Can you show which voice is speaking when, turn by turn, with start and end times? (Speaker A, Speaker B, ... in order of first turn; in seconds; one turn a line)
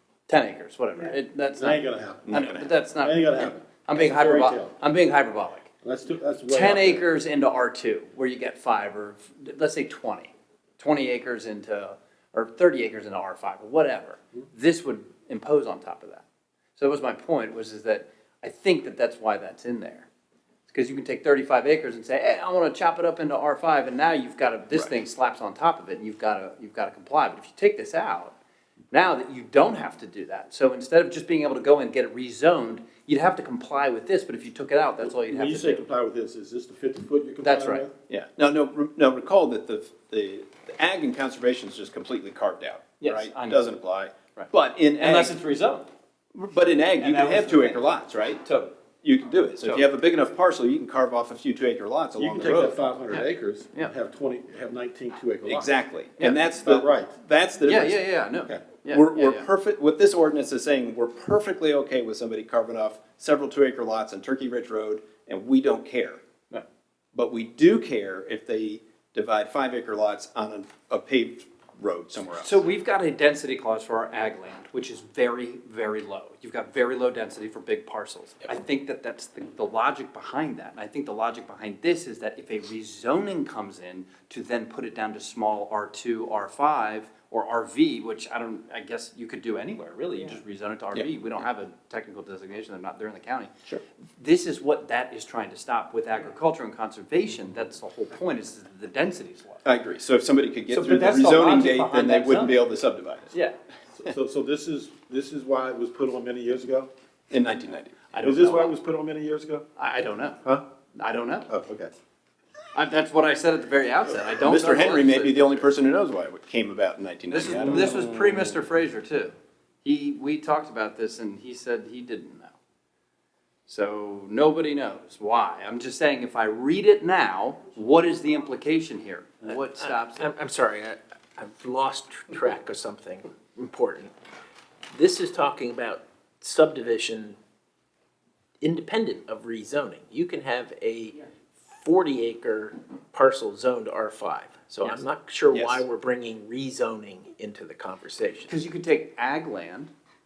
Speaker A: 0.3-5.7
Speaker B: 1.1-2.4
Speaker C: 2.2-2.7
Speaker B: 3.0-4.8
Speaker B: 5.8-7.0
Speaker A: 6.5-16.2
Speaker A: 16.8-20.1
Speaker A: 20.7-28.4
Speaker A: 28.9-35.8
Speaker B: 35.0-37.9
Speaker A: 37.4-37.9
Speaker C: 38.1-45.3
Speaker A: 43.0-43.6
Speaker A: 44.4-45.9
Speaker C: 46.3-48.5
Speaker A: 47.0-47.8
Speaker A: 48.4-48.7
Speaker C: 49.0-52.8
Speaker B: 52.2-55.8
Speaker A: 53.1-53.9
Speaker C: 55.4-58.0
Speaker B: 56.5-57.1
Speaker A: 57.6-59.5
Speaker C: 58.9-66.2
Speaker C: 67.1-72.6
Speaker A: 72.4-93.5
Speaker A: 94.2-99.6
Speaker C: 99.6-103.3
Speaker A: 100.7-102.6
Speaker B: 104.0-106.9
Speaker C: 107.3-108.1
Speaker A: 108.1-108.7
Speaker B: 108.2-109.6
Speaker A: 109.8-110.4
Speaker A: 110.9-111.5
Speaker B: 111.5-111.9
Speaker A: 112.7-115.5
Speaker C: 114.4-118.0
Speaker A: 117.3-122.5
Speaker B: 117.5-118.6
Speaker A: 123.7-130.3
Speaker D: 129.5-134.1
Speaker D: 134.9-137.4
Speaker D: 138.6-148.5
Speaker C: 145.5-145.8
Speaker A: 148.5-149.9